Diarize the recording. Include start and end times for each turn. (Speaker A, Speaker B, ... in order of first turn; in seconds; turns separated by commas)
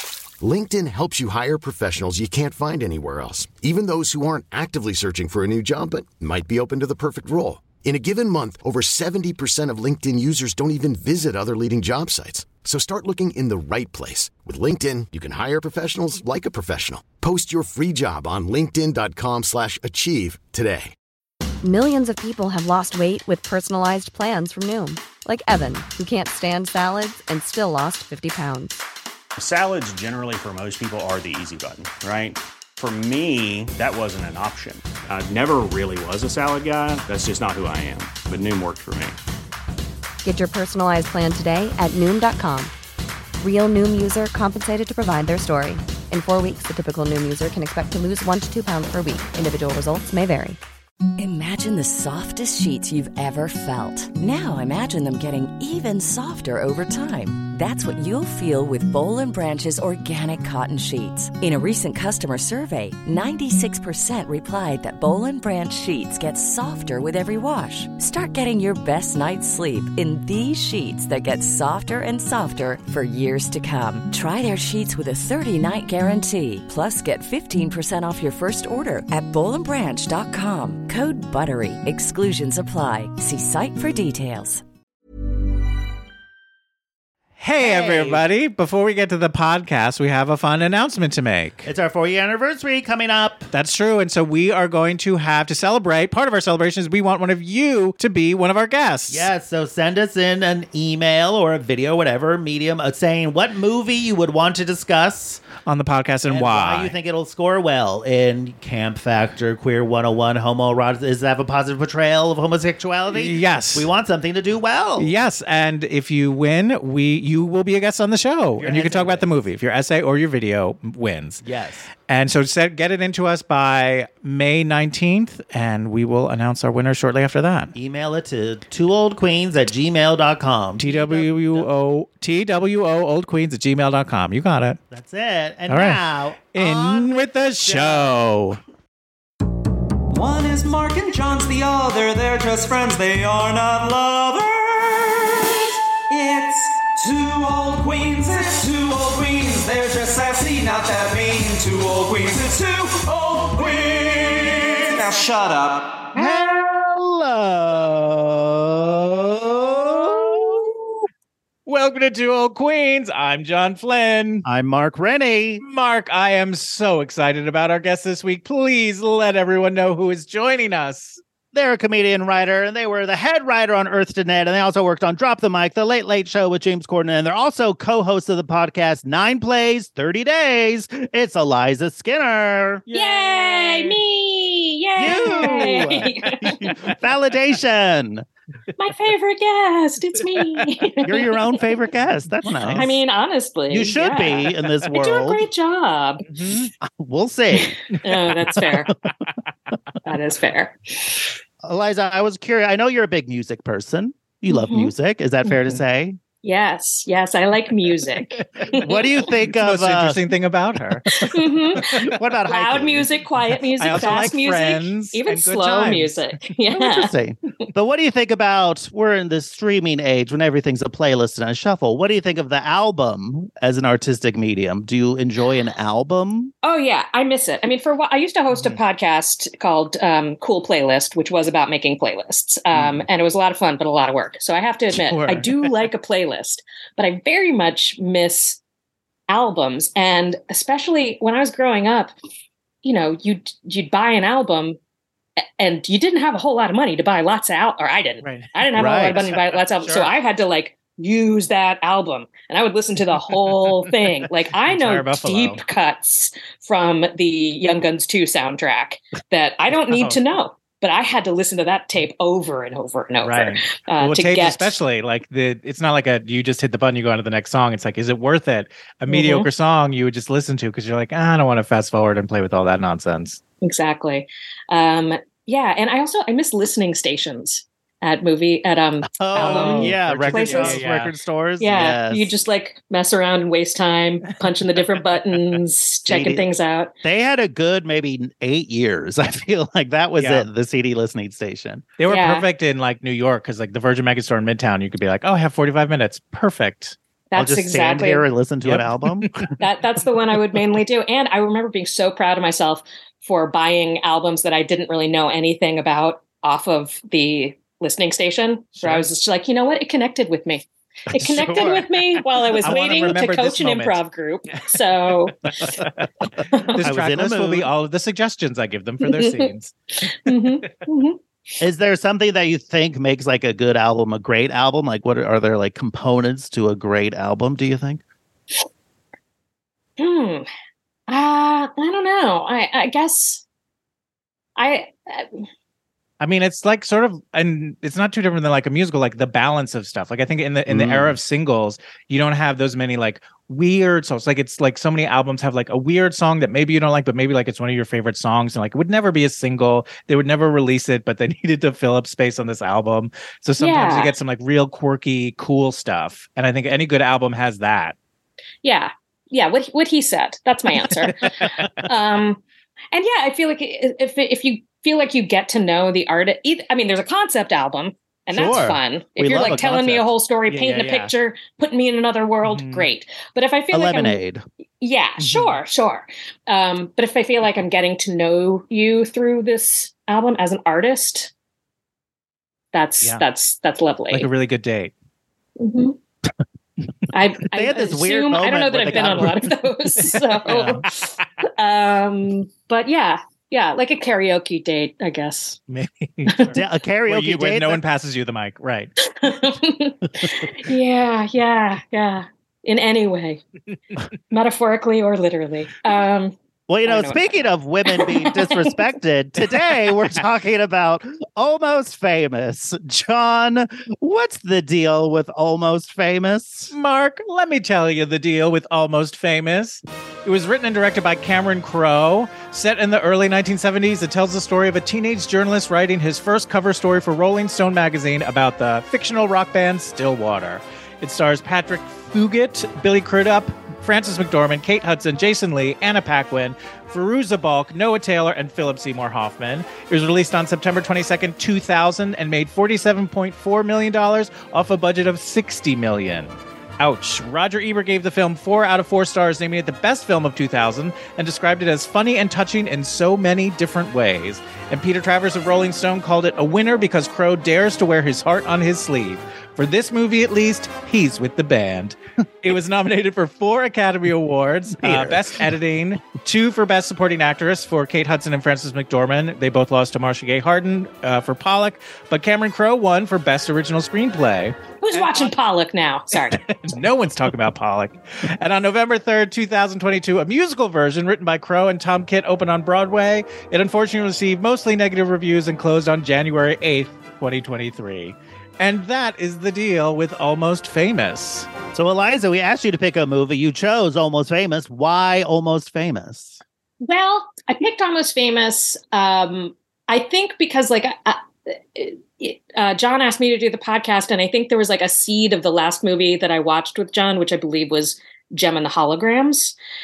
Speaker A: 0.4-20.9, Speaker B: 21.6-28.9, Speaker C: 29.4-39.2, Speaker B: 40.2-42.7, Speaker B: 43.4-50.6, Speaker D: 51.2-84.6, Speaker E: 87.4-91.7, Speaker F: 87.6-88.2, Speaker F: 91.7-93.5, Speaker E: 93.5-99.3, Speaker F: 99.1-105.5, Speaker E: 105.6-106.9, Speaker F: 106.3-115.1, Speaker E: 113.1-113.9, Speaker E: 115.0-121.4, Speaker F: 118.6-119.3, Speaker F: 121.4-121.9, Speaker E: 122.0-127.7, Speaker F: 127.8-131.7, Speaker E: 130.8-134.8, Speaker F: 134.9-138.2, Speaker E: 135.7-136.0, Speaker E: 136.5-138.6, Speaker G: 140.1-156.1, Speaker F: 156.2-160.8, Speaker E: 159.7-160.7, Speaker E: 161.7-164.4, Speaker F: 164.4-165.6, Speaker E: 165.6-171.2, Speaker F: 171.5-183.9, Speaker H: 182.9-186.7, Speaker F: 185.0-188.3, Speaker E: 185.3-186.9, Speaker H: 188.8-191.4, Speaker F: 191.1-193.0, Speaker E: 192.6-192.9, Speaker H: 192.8-196.2, Speaker F: 193.7-195.5, Speaker E: 196.2-196.7, Speaker F: 196.8-197.8, Speaker H: 198.0-198.9, Speaker H: 200.1-201.2, Speaker F: 201.6-206.2, Speaker H: 204.5-204.9, Speaker H: 206.4-209.2, Speaker E: 208.2-208.9, Speaker F: 208.8-210.2, Speaker E: 209.5-211.9, Speaker H: 211.1-217.1, Speaker F: 211.8-213.2, Speaker E: 213.8-216.2, Speaker F: 213.9-214.3, Speaker F: 216.7-226.5, Speaker H: 226.6-238.6, Speaker E: 234.9-235.8, Speaker H: 239.3-242.1, Speaker H: 242.8-244.8, Speaker H: 245.6-264.8, Speaker E: 248.2-250.1, Speaker F: 248.7-249.2, Speaker E: 253.5-253.9, Speaker E: 254.7-255.6, Speaker E: 259.9-260.2, Speaker E: 263.2-273.4, Speaker H: 269.1-269.5, Speaker H: 273.6-280.9, Speaker F: 279.2-282.3, Speaker E: 279.3-281.1, Speaker H: 281.6-286.9, Speaker F: 286.1-286.5, Speaker F: 287.0-291.9, Speaker E: 290.2-290.5, Speaker E: 292.0-297.0, Speaker H: 292.1-292.5, Speaker H: 297.3-298.3, Speaker F: 297.4-299.4, Speaker E: 298.6-299.5, Speaker H: 299.6-315.8, Speaker E: 308.8-309.1, Speaker F: 311.2-311.9, Speaker E: 312.6-314.0, Speaker E: 315.6-316.1, Speaker H: 316.5-316.8, Speaker E: 316.7-319.7, Speaker F: 316.8-317.7, Speaker H: 319.0-319.5, Speaker H: 320.0-321.2, Speaker E: 320.3-320.8, Speaker F: 321.6-328.0, Speaker H: 330.0-330.5, Speaker H: 331.1-333.4, Speaker H: 334.6-335.4, Speaker E: 336.2-357.9, Speaker F: 340.7-341.2, Speaker H: 353.6-354.1, Speaker H: 358.6-362.4, Speaker E: 361.0-361.9, Speaker H: 362.9-374.2, Speaker F: 368.3-370.1, Speaker E: 369.3-369.7, Speaker E: 370.5-371.1, Speaker E: 372.4-372.9, Speaker F: 373.7-374.4, Speaker H: 374.8-381.3, Speaker E: 375.2-375.6, Speaker H: 382.7-384.3, Speaker E: 384.1-384.9, Speaker H: 385.6-386.0, Speaker H: 387.1-395.6, Speaker F: 387.5-389.4, Speaker F: 390.5-390.8, Speaker E: 395.7-398.9, Speaker H: 396.3-396.5, Speaker F: 396.5-397.8, Speaker H: 399.1-403.4, Speaker H: 404.3-408.8, Speaker F: 406.7-416.7, Speaker E: 416.7-475.3, Speaker F: 464.7-465.4, Speaker H: 474.8-476.8, Speaker E: 476.1-491.5, Speaker F: 491.7-496.4, Speaker H: 496.8-509.6